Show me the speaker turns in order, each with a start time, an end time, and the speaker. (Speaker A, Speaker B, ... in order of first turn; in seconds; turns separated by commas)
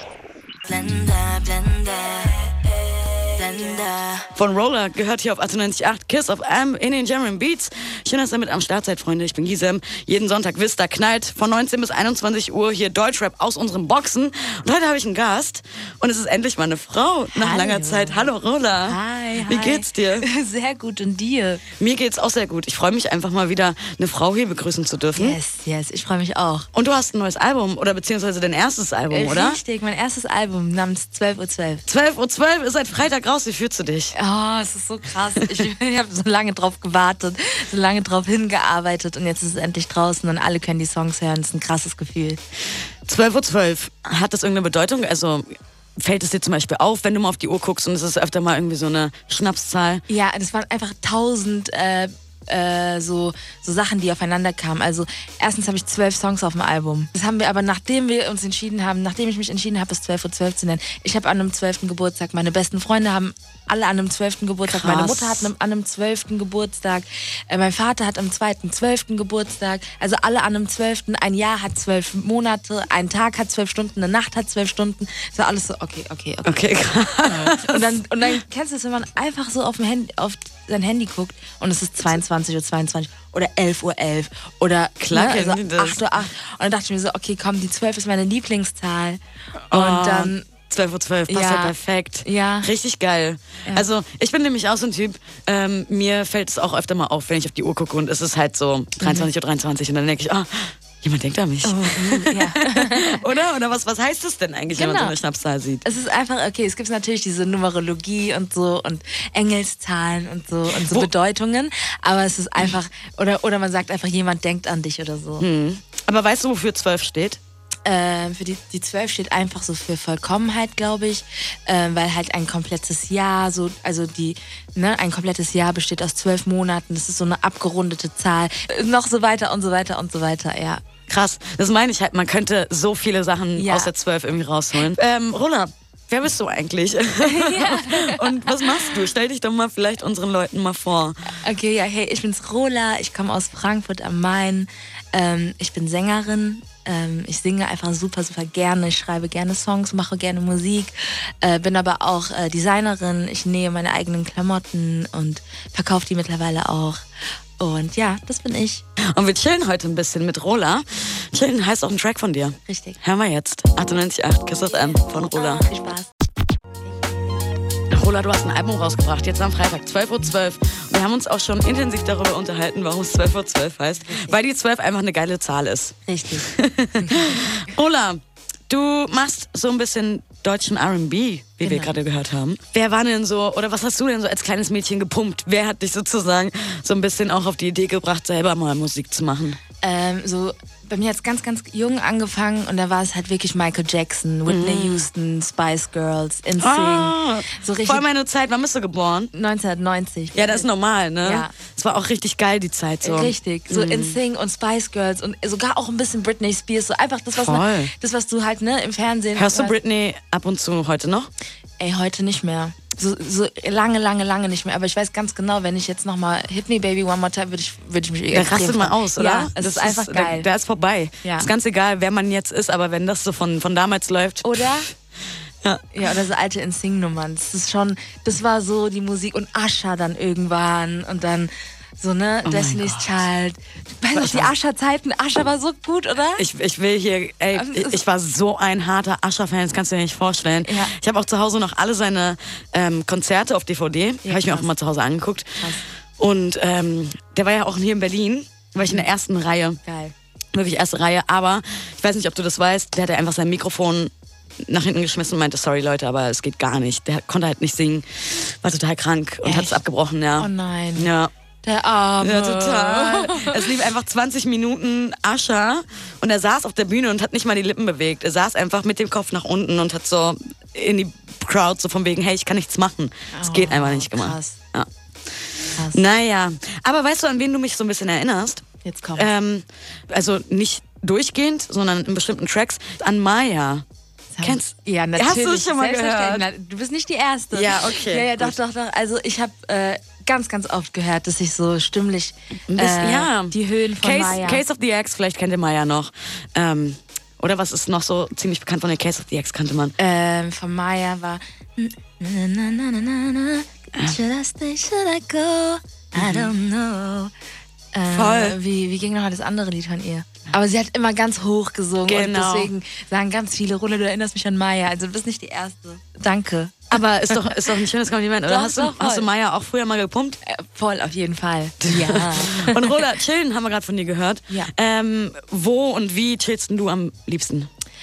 Speaker A: 0.7-2.5, Speaker A: 3.2-4.3, Speaker B: 4.3-20.3, Speaker A: 17.3-18.3, Speaker A: 18.8-21.6, Speaker B: 21.8-25.4, Speaker A: 25.2-26.7, Speaker B: 26.7-29.6, Speaker A: 29.1-31.9, Speaker B: 31.9-34.1, Speaker A: 34.1-42.4, Speaker B: 35.4-35.7, Speaker B: 43.1-45.5, Speaker B: 46.0-50.0, Speaker A: 50.1-76.8, Speaker B: 64.7-65.5, Speaker B: 76.5-78.0, Speaker A: 77.3-90.5, Speaker B: 85.0-86.0, Speaker B: 89.7-105.8, Speaker A: 91.3-92.7, Speaker A: 99.0-99.3, Speaker A: 101.6-103.2, Speaker A: 104.7-105.1, Speaker A: 105.8-115.5, Speaker B: 110.7-111.1, Speaker B: 115.4-117.4, Speaker A: 117.8-130.9, Speaker B: 131.1-141.4, Speaker A: 133.6-133.9, Speaker A: 137.2-139.0, Speaker A: 141.4-157.1, Speaker A: 157.6-158.8, Speaker B: 159.1-165.6, Speaker A: 162.7-163.0, Speaker A: 164.7-166.1, Speaker A: 166.8-167.3, Speaker B: 167.9-189.6, Speaker A: 174.1-174.4, Speaker A: 176.1-177.6, Speaker A: 181.6-181.9, Speaker A: 189.8-198.1, Speaker B: 194.5-195.1, Speaker B: 196.6-199.3, Speaker A: 199.3-200.7, Speaker B: 200.3-204.2, Speaker A: 201.2-201.5, Speaker A: 203.0-209.8, Speaker B: 207.3-207.9, Speaker B: 209.3-211.3, Speaker A: 211.8-220.5, Speaker B: 218.3-224.8, Speaker A: 221.2-221.5, Speaker A: 224.4-224.9, Speaker A: 225.9-236.4, Speaker B: 232.4-233.1, Speaker B: 234.1-234.5, Speaker B: 236.4-249.8, Speaker A: 237.5-238.0, Speaker A: 240.6-240.9, Speaker A: 244.2-244.7, Speaker A: 249.8-250.1, Speaker B: 250.5-254.1, Speaker B: 254.7-261.3, Speaker A: 259.4-259.8, Speaker A: 260.4-261.1, Speaker A: 261.6-263.7, Speaker B: 262.2-274.9, Speaker A: 273.3-274.6, Speaker A: 275.8-276.0, Speaker B: 275.8-278.6, Speaker A: 278.8-279.3, Speaker B: 279.1-283.8, Speaker A: 284.4-294.6, Speaker B: 284.4-286.5, Speaker B: 287.5-288.6, Speaker B: 292.7-299.9, Speaker A: 300.0-307.3, Speaker B: 306.2-306.5, Speaker A: 307.9-317.6, Speaker B: 308.1-308.6, Speaker B: 312.1-312.7, Speaker B: 316.9-320.4, Speaker A: 318.4-319.3, Speaker A: 320.4-323.0, Speaker B: 321.8-327.7